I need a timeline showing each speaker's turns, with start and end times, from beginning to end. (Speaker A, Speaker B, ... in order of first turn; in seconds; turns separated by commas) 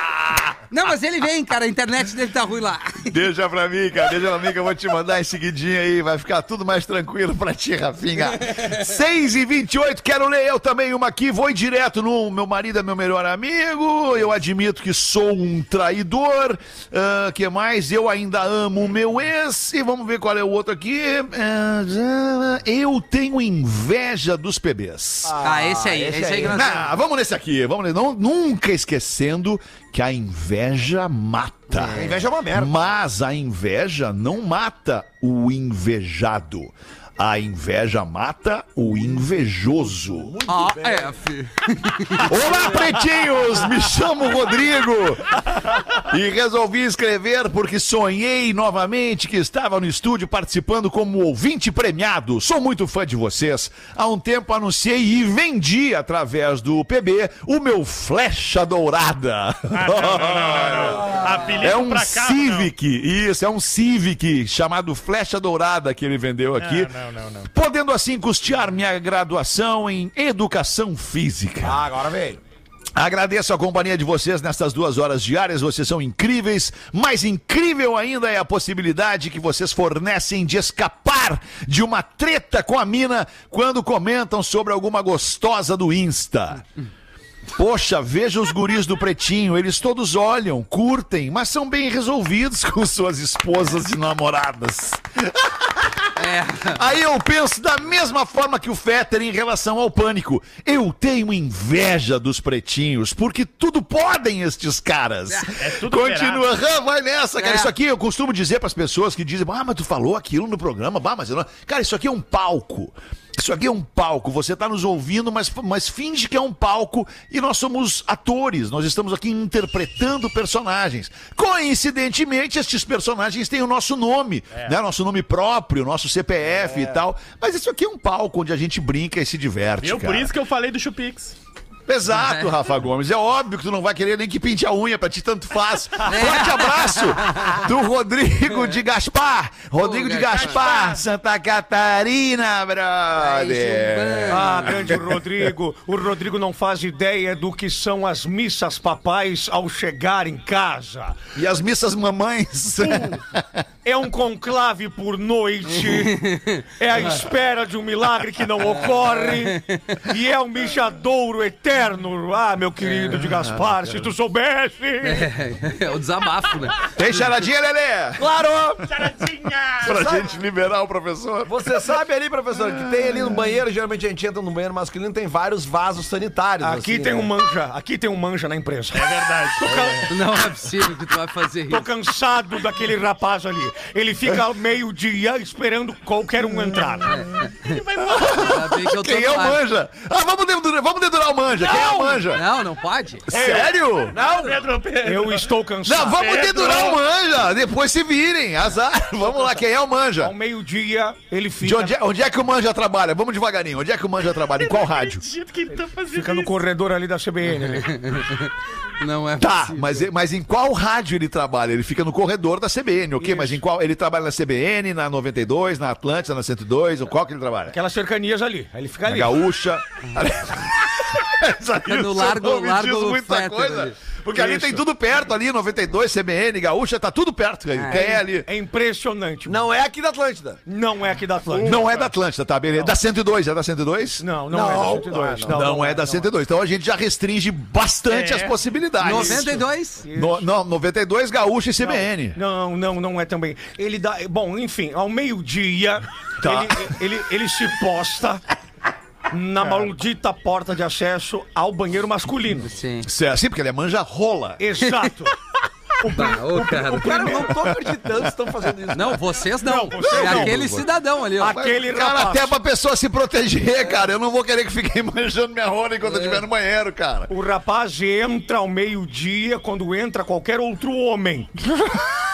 Speaker A: 0.7-3.2, Speaker B: 3.1-25.4, Speaker C: 25.2-26.7, Speaker A: 25.4-26.8, Speaker B: 26.4-40.3, Speaker A: 31.7-32.1, Speaker C: 31.9-32.7, Speaker C: 39.8-41.2, Speaker A: 40.5-42.9, Speaker B: 42.2-45.4, Speaker C: 42.5-42.9, Speaker B: 45.9-66.9, Speaker D: 59.7-62.7, Speaker D: 66.6-67.5, Speaker B: 67.5-71.8, Speaker C: 71.6-72.4, Speaker B: 73.0-86.6, Speaker B: 87.5-96.1, Speaker A: 96.2-96.8, Speaker B: 96.7-130.3, Speaker D: 105.5-106.5, Speaker A: 107.4-107.7, Speaker C: 126.5-127.0, Speaker D: 129.8-131.3, Speaker B: 131.9-145.1, Speaker A: 132.1-132.6, Speaker A: 136.1-137.7, Speaker A: 139.7-140.6, Speaker D: 140.2-141.0, Speaker A: 143.2-144.9, Speaker E: 144.3-151.2, Speaker B: 151.3-153.6, Speaker E: 153.8-156.2, Speaker A: 155.8-156.7, Speaker E: 156.8-165.3, Speaker A: 159.2-160.0, Speaker A: 162.8-163.2, Speaker A: 165.0-166.8, Speaker B: 166.9-168.3, Speaker C: 168.2-168.8, Speaker D: 168.9-170.2, Speaker B: 169.8-171.9, Speaker C: 169.8-170.3, Speaker C: 171.4-177.3, Speaker E: 176.6-180.1, Speaker D: 178.9-180.1, Speaker C: 179.7-179.9, Speaker A: 180.1-181.9, Speaker E: 181.7-187.2, Speaker A: 187.0-189.6, Speaker D: 187.6-188.6, Speaker B: 188.1-192.4, Speaker E: 191.7-192.2, Speaker A: 192.2-193.3, Speaker B: 193.3-194.2, Speaker E: 193.3-196.3, Speaker D: 194.1-195.5, Speaker C: 194.2-194.5, Speaker B: 195.8-200.3, Speaker D: 196.1-197.0, Speaker E: 200.2-201.9, Speaker B: 201.6-205.2, Speaker D: 204.5-206.6, Speaker E: 206.1-208.0, Speaker A: 207.5-210.1, Speaker B: 209.4-217.8, Speaker E: 213.2-213.6, Speaker E: 217.7-219.4, Speaker B: 219.1-228.5, Speaker A: 221.8-223.9, Speaker E: 224.3-224.8, Speaker A: 227.7-228.2, Speaker E: 227.9-229.6, Speaker C: 229.4-230.6, Speaker E: 230.7-231.9, Speaker D: 231.4-232.1, Speaker B: 231.6-234.2, Speaker E: 234.2-236.3, Speaker C: 234.5-235.7, Speaker B: 235.5-239.6, Speaker D: 238.1-238.6, Speaker A: 239.0-240.1, Speaker E: 239.1-240.4, Speaker B: 240.1-242.4, Speaker E: 241.8-248.4, Speaker B: 246.4-246.9, Speaker E: 249.3-252.7, Speaker A: 252.6-253.1, Speaker B: 253.0-254.6, Speaker E: 254.6-255.3, Speaker E: 256.0-257.6, Speaker A: 256.0-257.4, Speaker C: 256.9-259.3, Speaker A: 258.9-261.6, Speaker E: 259.6-260.8, Speaker B: 260.1-260.9, Speaker E: 261.4-262.5, Speaker B: 261.4-267.3, Speaker A: 266.0-266.4, Speaker E: 267.3-272.0